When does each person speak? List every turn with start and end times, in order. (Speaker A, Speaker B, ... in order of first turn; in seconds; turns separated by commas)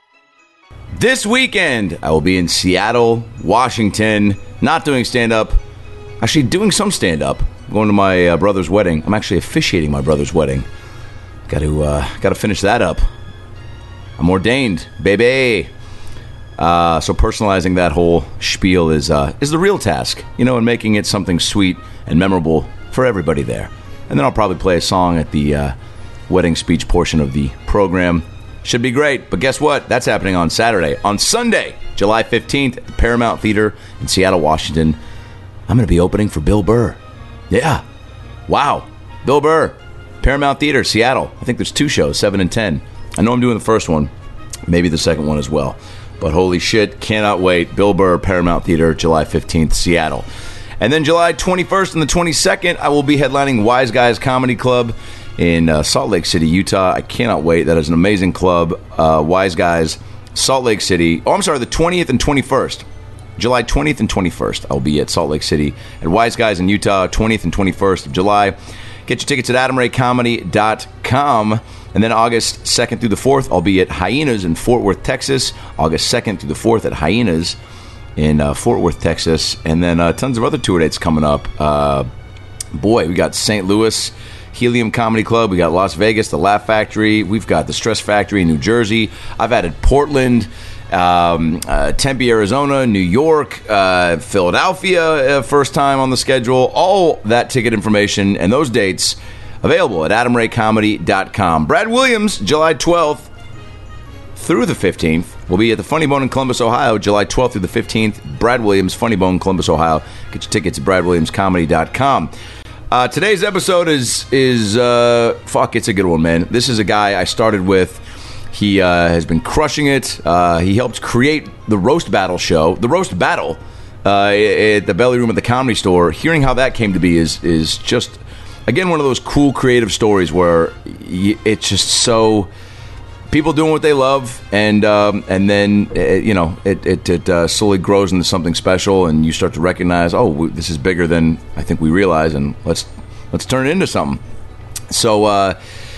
Speaker A: 0.9-5.6, Speaker A: 6.2-10.7, Speaker A: 11.5-13.1, Speaker A: 14.2-15.7, Speaker A: 16.6-25.8, Speaker A: 26.3-35.0, Speaker A: 35.7-37.0, Speaker A: 37.5-37.8, Speaker A: 38.5-44.1, Speaker A: 44.7-50.3, Speaker A: 50.8-62.9, Speaker A: 63.4-77.6, Speaker A: 78.2-82.1, Speaker A: 82.7-103.3, Speaker A: 104.4-112.3, Speaker A: 112.9-132.5, Speaker A: 133.3-144.2, Speaker A: 144.9-145.6